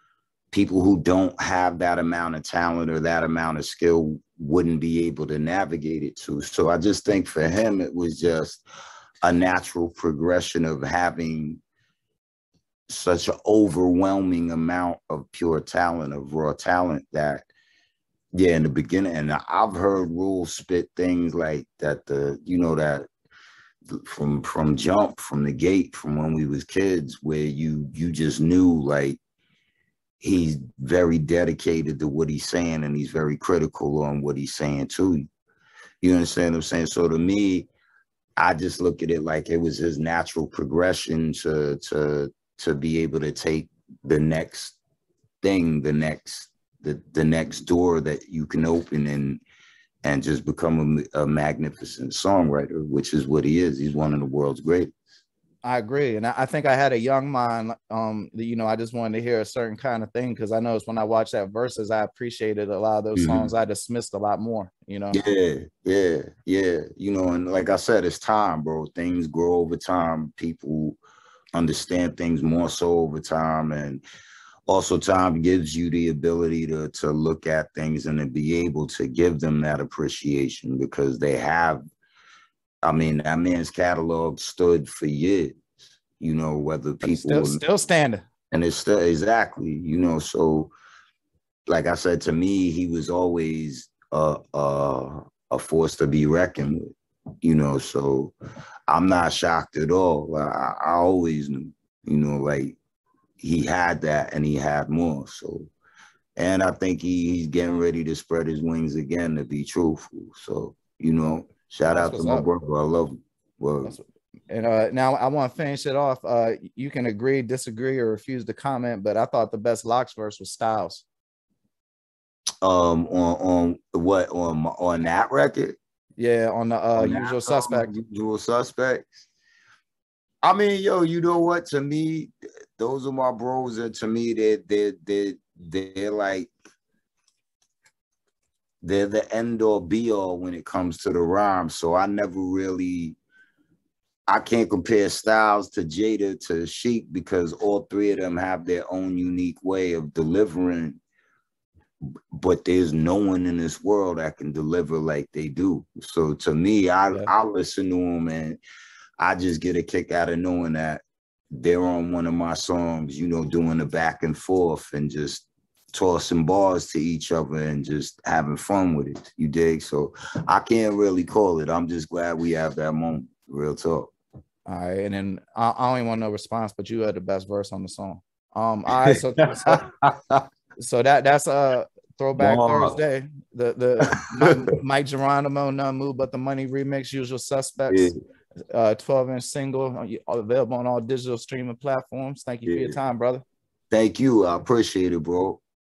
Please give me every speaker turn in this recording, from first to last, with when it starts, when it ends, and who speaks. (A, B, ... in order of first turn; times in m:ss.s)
0:00.5-0:08.6 A
0:09.2-0:11.6 A
0:12.9-0:17.5 A
0:18.3-0:23.0 A
0:23.9-0:29.2 A
0:30.2-0:35.3 A
0:36.0-0:37.7 A
0:38.4-0:44.8 A
0:45.4-0:49.4 A
0:50.0-0:54.9 A
0:55.6-1:05.2 B
1:03.2-1:03.5 A
1:05.1-1:11.0 A
1:11.5-1:14.0 A
1:14.7-1:21.8 A
1:22.8-1:25.6 A
1:26.2-1:27.6 A
1:27.0-1:28.2 B
1:28.5-1:30.7 A
1:31.7-1:36.9 A
1:37.4-1:38.3 A
1:38.9-1:42.8 A
1:43.4-1:45.7 A
1:46.4-1:53.9 A
1:51.9-1:52.5 B
1:53.8-2:01.0 B
2:02.6-2:05.8 A
2:06.2-2:07.9 B
2:06.9-2:09.2 A
2:10.4-2:16.5 A
2:18.8-2:23.2 A
2:24.3-2:31.0 A
2:32.0-2:38.6 A
2:39.2-2:54.1 A
2:54.6-2:59.8 B
2:59.6-3:00.4 A
3:00.8-3:08.1 B
3:02.4-3:03.0 A
3:04.1-3:04.5 A
3:07.9-3:08.2 A
3:08.7-3:13.4 B
3:12.6-3:13.0 A
3:13.9-3:15.6 A